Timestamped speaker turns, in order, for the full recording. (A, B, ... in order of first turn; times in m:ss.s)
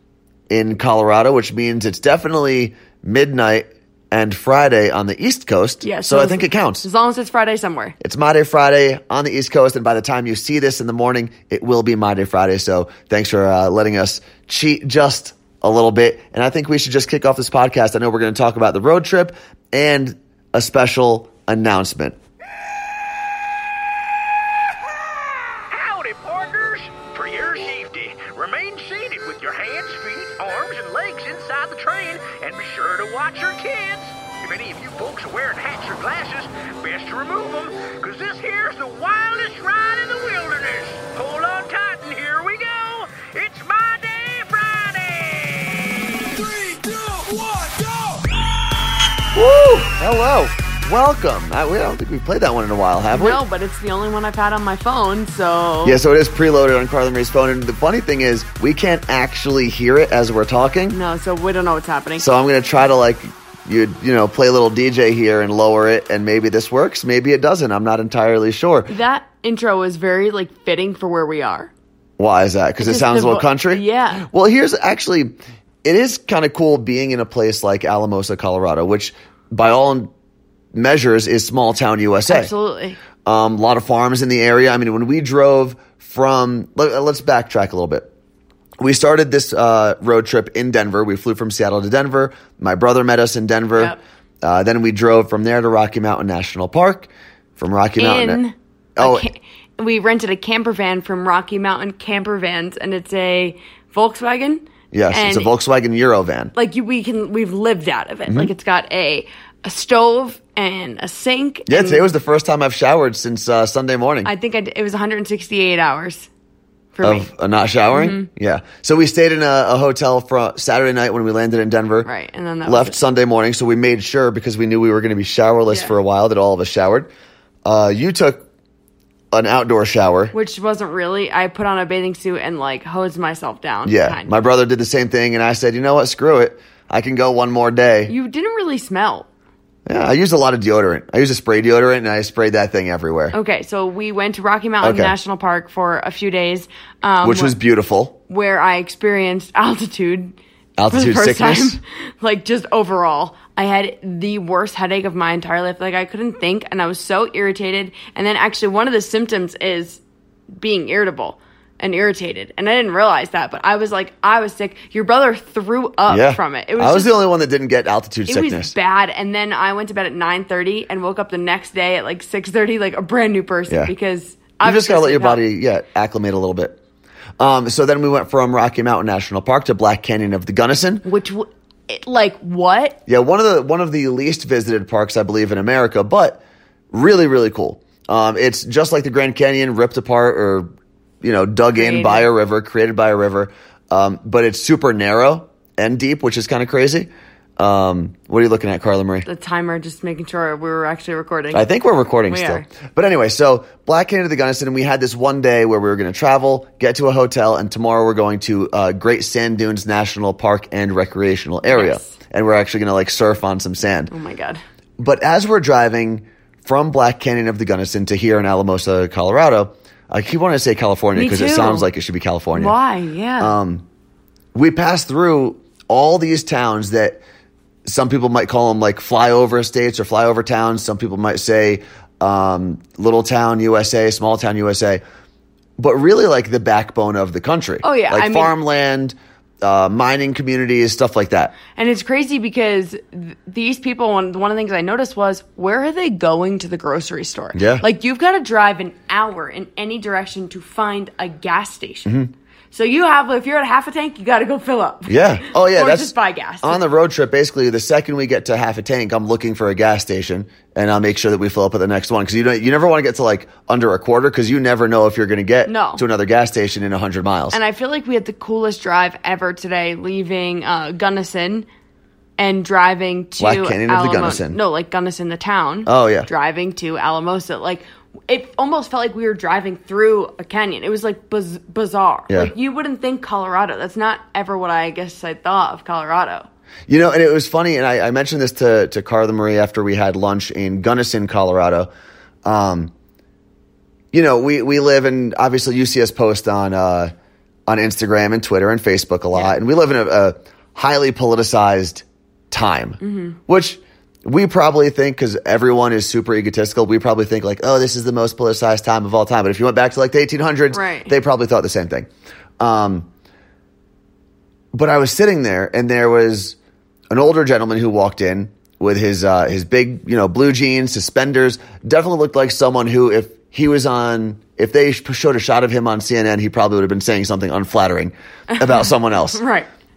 0:00.5-0:06.9 A
0:05.8-0:07.9 B
0:08.0-0:22.2 A
0:25.7-0:48.3 C
0:49.3-0:53.4 A
0:53.1-0:56.0 B
0:55.8-1:01.0 A
1:00.9-1:02.3 B
1:02.2-1:08.9 A
1:08.9-1:11.7 B
1:12.2-1:20.1 A
1:12.8-1:14.3 B
1:20.7-1:22.5 A
1:22.3-1:23.0 B
1:23.2-1:28.1 A
1:28.8-1:38.4 A
1:38.0-1:45.5 B
1:39.0-1:39.3 A
1:44.9-1:46.5 A
1:46.5-1:52.1 B
1:48.3-1:48.5 A
1:51.7-1:54.3 A
1:54.2-1:56.3 B
1:56.9-1:57.3 B
1:57.0-2:02.1 A
1:57.9-1:58.3 B
2:02.0-2:03.0 B
2:02.6-2:07.1 A
2:05.7-2:05.9 B
2:07.6-2:08.4 A
2:09.3-2:10.3 A
2:10.3-2:14.3 B
2:13.8-2:18.1 A
2:18.1-2:19.3 B
2:19.8-2:23.4 A
2:23.3-2:27.6 B
2:24.8-2:25.1 A
2:27.2-2:28.2 A
2:28.3-2:30.4 B
2:30.8-2:31.8 A
2:30.9-2:40.0 B
2:40.6-2:47.1 B
2:46.1-2:48.7 A
2:48.3-2:55.4 B
2:54.6-2:56.8 A
2:57.4-3:01.0 A
3:01.0-3:03.0 B
3:03.0-3:06.4 A
3:06.9-3:10.7 A
3:11.2-3:19.2 A
3:11.7-3:12.3 B
3:19.2-3:21.7 B
3:21.5-3:34.1 A
3:22.3-3:22.6 B
3:31.7-3:32.1 B
3:34.1-3:34.6 B
3:35.0-3:42.7 A
3:41.1-3:41.9 B
3:42.5-3:43.6 B
3:43.4-3:43.8 A
3:44.5-3:47.2 A
3:47.8-3:55.0 A
3:55.8-4:01.5 A
3:57.8-3:58.5 B
4:01.7-4:12.1 B
4:07.5-4:07.8 A
4:12.0-4:12.3 A
4:12.7-4:16.8 B
4:15.1-4:27.6 A
4:25.6-4:26.0 B
4:27.5-4:31.7 B
4:32.4-4:46.5 B
4:33.4-4:34.6 A
4:35.8-4:36.3 A
4:46.9-4:51.9 A
4:52.4-4:52.9 A
4:54.1-4:57.1 A
4:57.7-5:12.1 A
4:59.3-4:59.6 B
5:03.0-5:03.4 B
5:10.7-5:11.1 B
5:12.6-5:13.1 A
5:14.7-5:16.6 A
5:17.1-5:29.4 A
5:28.5-5:29.7 B